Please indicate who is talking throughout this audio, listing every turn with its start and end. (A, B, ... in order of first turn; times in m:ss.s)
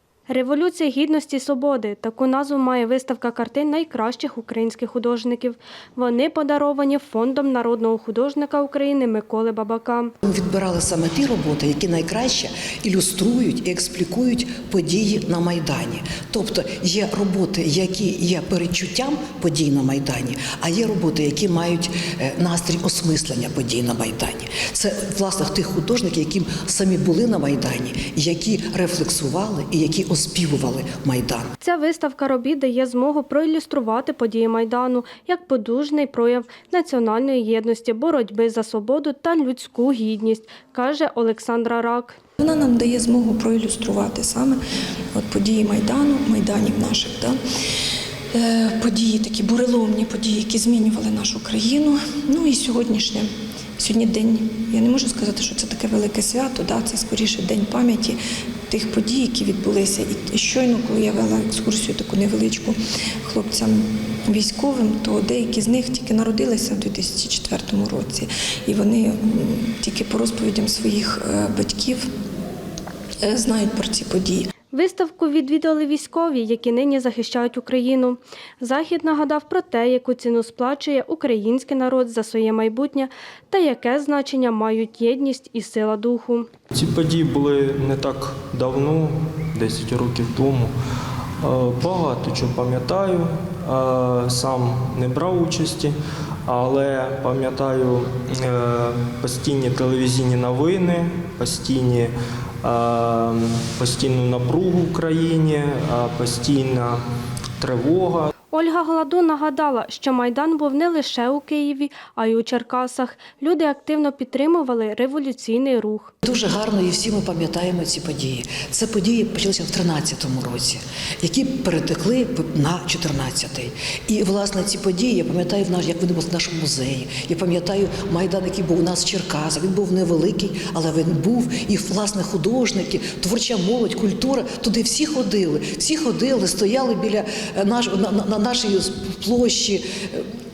0:00.3-0:10.1 A
0:10.2-0:31.5 B
0:31.6-0:42.2 A
0:42.4-0:44.6 C
0:45.1-0:47.4 C
0:48.3-0:53.3 C
0:53.8-0:58.2 C
0:58.7-1:12.1 C
1:13.2-1:14.5 C
1:14.7-1:26.5 A
1:26.7-1:30.7 D
1:31.4-1:36.0 D
1:36.5-1:47.0 D
1:47.6-1:48.3 D
1:48.5-1:56.1 A
1:56.2-2:20.2 B